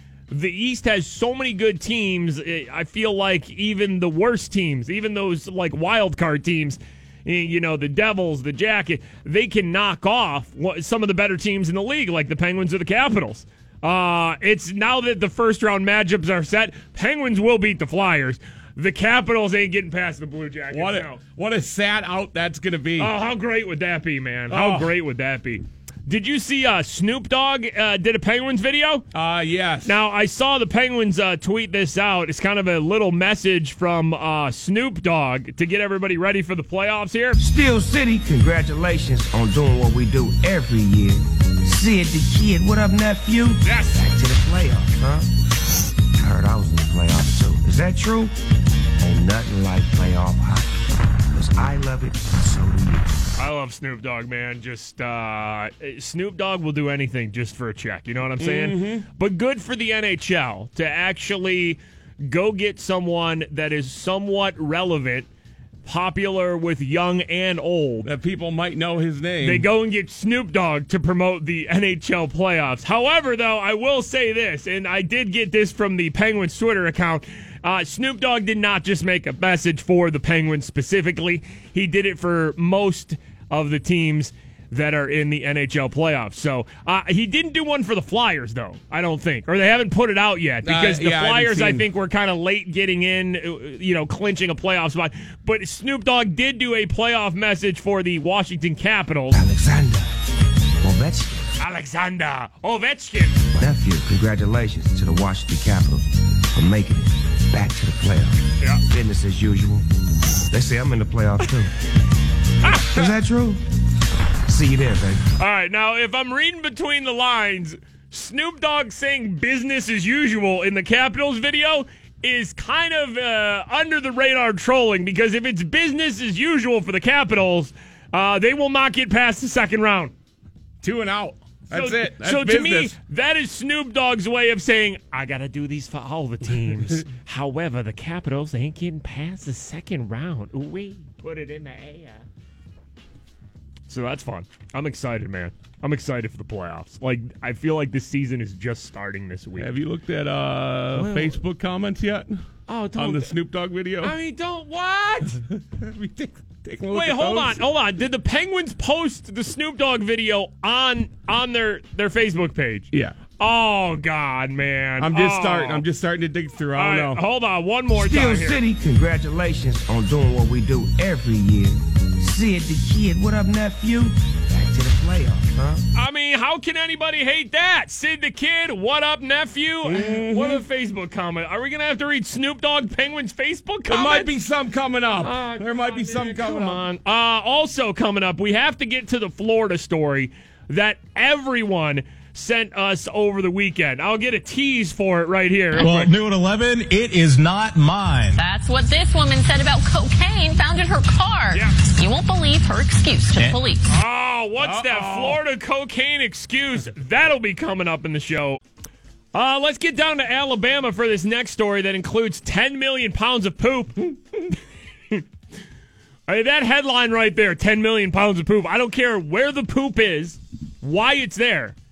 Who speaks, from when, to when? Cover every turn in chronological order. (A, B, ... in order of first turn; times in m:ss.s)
0:00.3-0:21.2 A
0:20.7-0:23.1 B
0:23.0-0:29.0 A
0:24.5-0:24.9 B
0:29.1-0:29.9 B
0:29.8-0:37.4 A
0:37.4-0:45.3 C
0:43.6-0:44.0 A
0:46.1-0:48.3 C
0:49.0-0:53.3 C
0:53.4-1:05.3 A
0:58.4-0:59.1 B
1:05.8-1:08.1 A
1:08.0-1:09.6 B
1:09.4-1:39.4 A
1:30.6-1:31.9 B
1:39.3-1:40.1 C
1:40.8-1:41.5 C
1:41.6-1:43.4 A
1:43.5-1:49.8 C
1:50.5-1:51.7 C
1:52.6-1:53.1 A
1:52.7-1:53.6 C
1:54.5-1:55.2 C
1:55.4-2:10.1 A
2:10.8-2:12.9 B
2:11.7-2:22.2 A
2:23.9-2:29.7 A
2:29.6-2:32.4 B
2:30.9-2:31.4 A
2:32.7-2:33.4 A
2:32.9-2:34.1 B
2:34.0-2:35.4 A
2:35.3-2:37.6 B
2:36.9-2:45.8 A
2:45.0-2:47.2 B
2:46.7-2:48.6 A
2:47.9-2:55.8 C
2:55.9-3:04.3 A
2:59.8-3:00.6 B
3:03.9-3:06.8 B
3:05.2-3:16.1 A
3:15.7-3:18.4 D
3:18.4-3:23.8 E
3:23.3-3:23.6 D
3:23.9-3:28.6 A
3:24.6-3:25.4 B
3:29.3-3:34.1 A
3:36.3-3:41.8 A